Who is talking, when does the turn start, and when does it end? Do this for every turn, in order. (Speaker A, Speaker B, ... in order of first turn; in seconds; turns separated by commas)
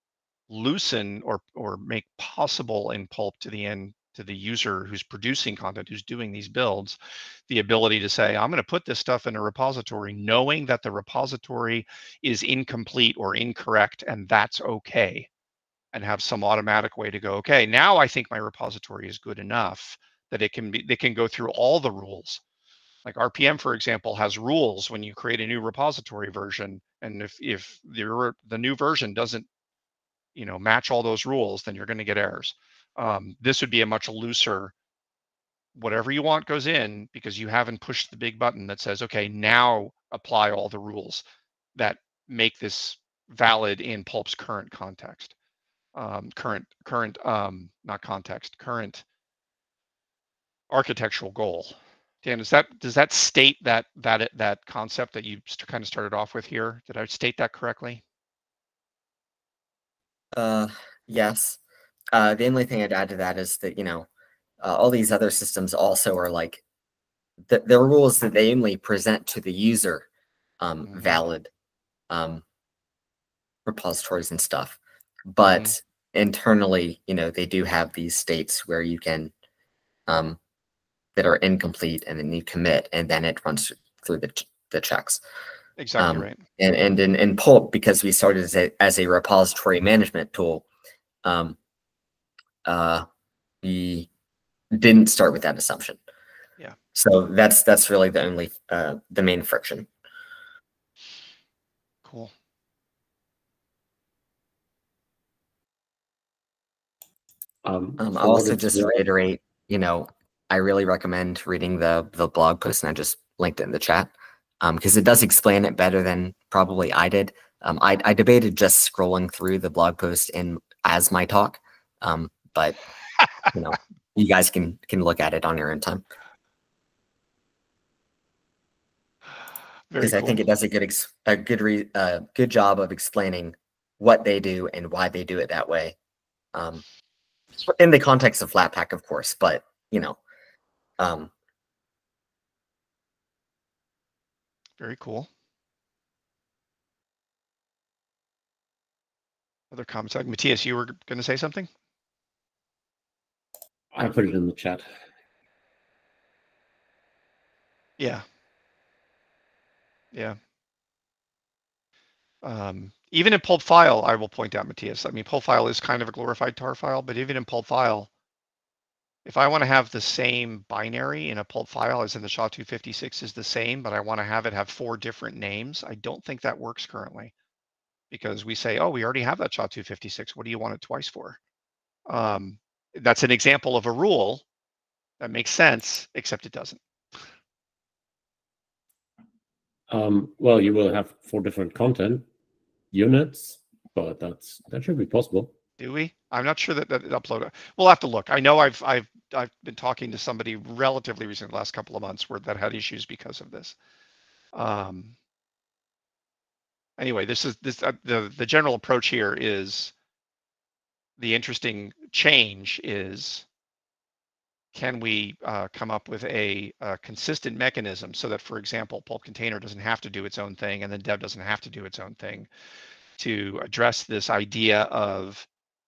Speaker A: 0.5-15.3, Speaker A: 15.9-22.4, Speaker A: 23.0-29.5, Speaker A: 30.3-34.7, Speaker A: 35.7-41.2, Speaker A: 41.8-45.3, Speaker A: 45.9-49.0, Speaker A: 50.7-58.0, Speaker B: 60.3-61.6, Speaker B: 62.1-64.1, Speaker B: 64.6-66.6, Speaker B: 67.5-70.1, Speaker B: 70.6-71.5, Speaker A: 70.9-71.2, Speaker B: 72.1-72.4, Speaker B: 73.7-74.8, Speaker B: 75.3-79.3, Speaker B: 80.1-80.4, Speaker B: 81.2-85.2, Speaker A: 85.8-86.4, Speaker B: 86.0-90.6, Speaker B: 91.2-91.6, Speaker B: 92.6-93.0, Speaker B: 93.6-94.1, Speaker B: 94.7-96.0, Speaker B: 96.9-99.9, Speaker A: 102.0-102.3, Speaker C: 107.6-109.0, Speaker B: 108.0-122.8, Speaker B: 123.5-126.0, Speaker A: 129.9-130.4, Speaker B: 130.0-135.9, Speaker B: 136.5-136.8, Speaker B: 137.7-140.2, Speaker B: 141.0-141.3, Speaker A: 144.8-145.3, Speaker A: 149.7-151.7, Speaker C: 153.9-154.8, Speaker A: 158.0-158.2, Speaker A: 160.1-160.4, Speaker A: 162.4-168.1, Speaker A: 169.2-177.3, Speaker A: 178.1-181.4, Speaker A: 182.1-184.4, Speaker A: 185.2-186.8, Speaker C: 189.9-192.2, Speaker C: 192.9-195.5, Speaker A: 195.8-203.8, Speaker A: 204.5-205.1, Speaker A: 207.0-209.9, Speaker A: 211.2-213.4, Speaker A: 214.7-222.5, Speaker A: 223.2-225.5